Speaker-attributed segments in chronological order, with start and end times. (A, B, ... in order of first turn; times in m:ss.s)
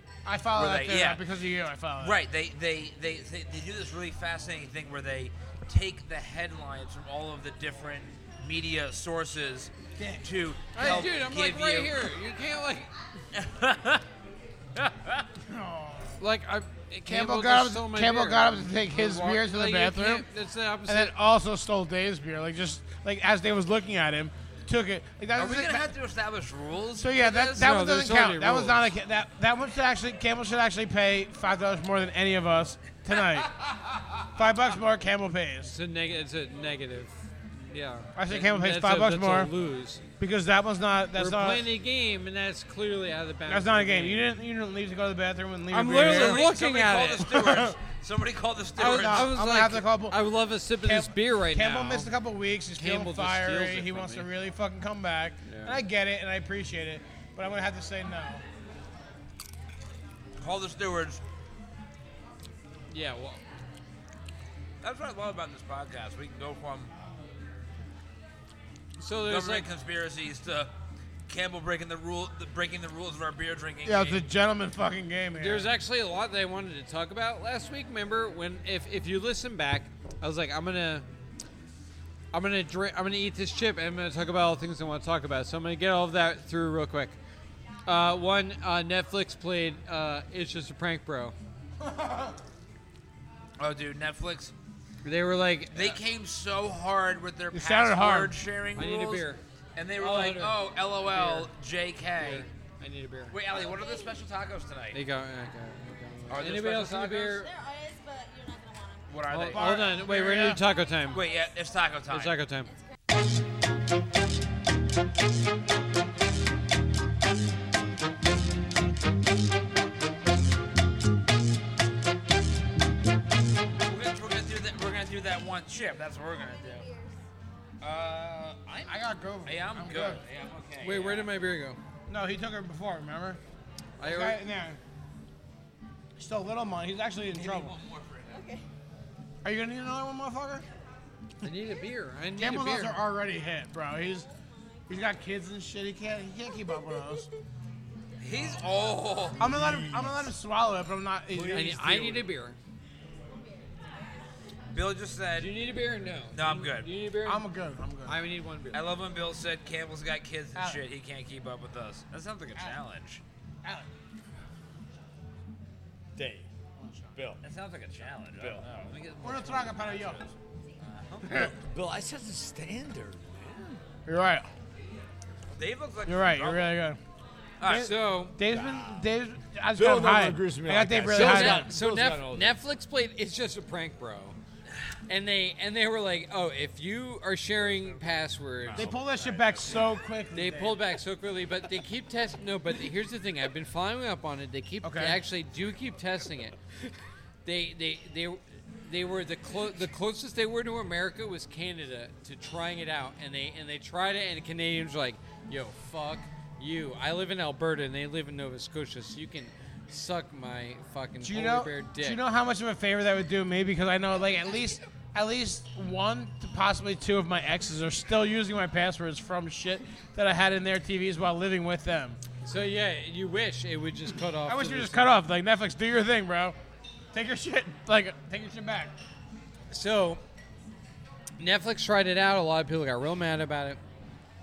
0:00.2-0:02.2 A
0:00.5-0:01.2 B
0:02.0-0:12.1 B
0:10.0-0:11.1 A
0:10.7-0:12.9 C
0:13.3-0:14.0 B
0:14.8-0:15.2 B
0:15.5-0:16.2 A
0:16.2-0:21.1 C
0:17.1-0:20.3 A
0:20.8-0:25.9 A
0:25.4-0:27.8 B
0:27.0-0:33.5 A
0:27.6-0:28.8 C
0:33.5-0:34.2 B
0:34.3-0:35.7 A
0:35.6-0:40.0 C
0:38.2-0:39.5 A
0:40.2-0:41.7 A
0:41.1-0:44.3 C
0:43.5-0:46.4 A
0:45.7-0:47.4 C
0:45.9-0:49.4 B
0:47.2-0:47.7 A
0:48.8-0:50.2 A
0:48.8-0:52.1 C
0:50.8-0:58.4 A
0:52.8-0:54.3 C
0:55.4-0:55.8 C
1:00.4-1:01.2 B
1:02.9-1:03.4 C
1:04.8-1:06.9 B
1:09.0-1:09.7 C
1:09.3-1:10.7 B
1:11.3-1:14.3 B
1:13.8-1:15.7 A
1:15.4-1:21.0 C
1:22.3-1:27.2 C
1:27.8-1:31.3 C
1:31.8-1:32.3 A
1:33.6-1:34.5 B
1:35.0-1:36.0 C
1:35.7-1:42.4 B
1:37.5-1:38.4 A
1:38.8-1:39.4 C
1:40.0-1:41.5 C
1:42.2-1:43.4 C
1:43.3-1:45.0 B
1:43.4-1:44.2 D
1:44.9-1:47.5 C
1:46.3-1:47.4 B
1:47.2-1:49.3 D
1:49.1-1:50.1 B
1:49.3-1:51.2 C
1:49.5-1:50.6 A
1:51.1-1:52.4 B
1:52.1-1:52.7 C
2:03.8-2:06.9 B
2:06.2-2:07.2 D
2:07.8-2:11.3 B
2:08.9-2:10.2 A
2:10.8-2:11.8 C
2:12.1-2:13.4 A
2:14.0-2:14.4 C
2:14.0-2:14.8 A
2:16.2-2:17.8 A
2:17.3-2:18.5 B
2:18.3-2:18.6 D
2:19.4-2:20.6 A
2:21.4-2:23.0 C
2:22.3-2:24.3 A
2:24.1-2:24.5 D
2:24.9-2:27.3 A
2:28.2-2:29.7 B
2:29.4-2:32.2 A
2:29.5-2:30.1 E
2:31.3-2:32.6 C
2:31.5-2:31.8 E
2:34.7-2:35.5 B
2:35.4-2:37.4 C
2:36.3-2:36.9 B
2:37.2-2:38.2 A
2:38.0-2:38.8 C
2:38.7-2:43.2 B
2:40.5-2:40.8 A
2:42.5-2:42.8 A
2:46.2-2:46.5 E
2:46.8-2:47.1 A
2:47.1-2:47.4 E
2:47.4-2:51.3 B
2:48.4-2:48.6 E
2:49.2-2:50.2 A
2:51.2-2:51.5 A
2:51.3-2:53.8 E
2:54.1-2:54.5 A
2:55.5-2:56.8 B
2:56.1-2:57.0 A
2:57.6-2:57.9 B
2:57.6-3:01.7 A
2:57.7-2:58.4 C
2:58.4-2:59.0 E
2:59.8-3:02.6 E
3:01.1-3:04.4 C
3:05.1-3:09.0 C
3:07.5-3:10.0 E
3:08.7-3:10.9 A
3:10.3-3:16.6 C
3:14.8-3:15.2 A
3:17.4-3:32.2 C
3:31.2-3:42.2 A
3:42.4-3:45.1 C
3:44.4-3:46.6 A
3:47.1-3:48.9 A
3:49.7-3:50.2 C
3:51.4-3:53.8 C